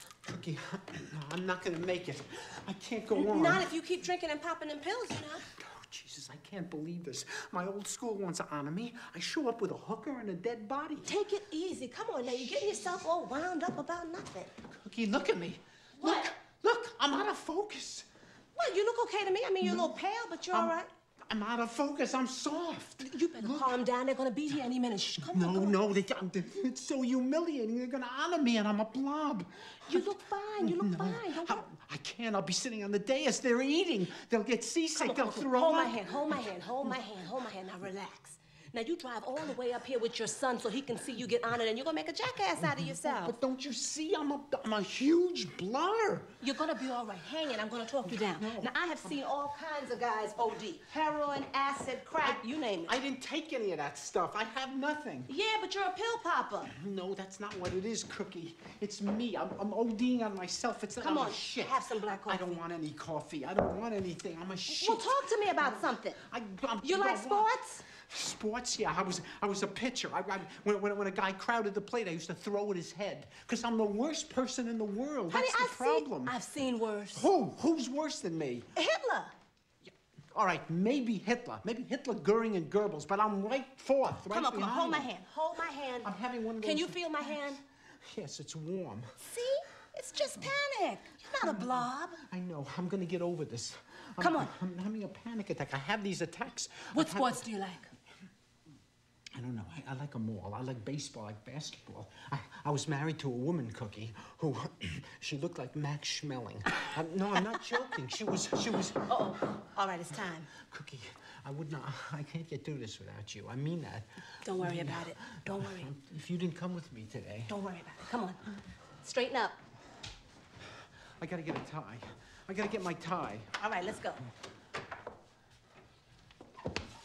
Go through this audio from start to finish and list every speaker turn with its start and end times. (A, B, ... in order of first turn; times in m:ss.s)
0:00.2-0:03.7 A
0:03.1-0:05.5 B
0:05.5-0:11.2 A
0:11.0-0:14.5 B
0:12.3-0:12.9 A
0:14.6-0:18.0 A
0:18.6-0:20.9 B
0:19.6-0:20.0 A
0:21.3-0:23.8 A
0:23.0-0:25.8 B
0:25.2-0:36.9 A
0:29.9-0:31.7 B
0:35.0-0:43.3 B
0:42.6-0:46.4 A
0:46.4-0:52.9 B
0:48.0-0:49.2 A
0:52.2-0:55.3 A
0:55.3-0:56.7 B
0:56.7-1:16.4 A
1:01.0-1:02.6 B
1:04.7-1:06.2 B
1:06.8-1:07.8 B
1:15.3-1:17.2 B
1:17.1-1:18.7 A
1:18.7-1:19.3 B
1:20.3-1:25.2 A
1:24.3-1:27.6 B
1:25.9-1:29.2 A
1:29.2-1:32.2 B
1:31.2-1:37.5 A
1:34.2-1:34.5 B
1:36.9-1:37.9 B
1:39.3-1:49.4 A
1:49.0-1:50.5 B
1:50.5-1:57.5 A
1:54.4-1:55.9 B
1:57.5-1:58.4 B
1:59.0-1:59.6 B
2:01.2-2:03.5 A
2:03.6-2:04.2 B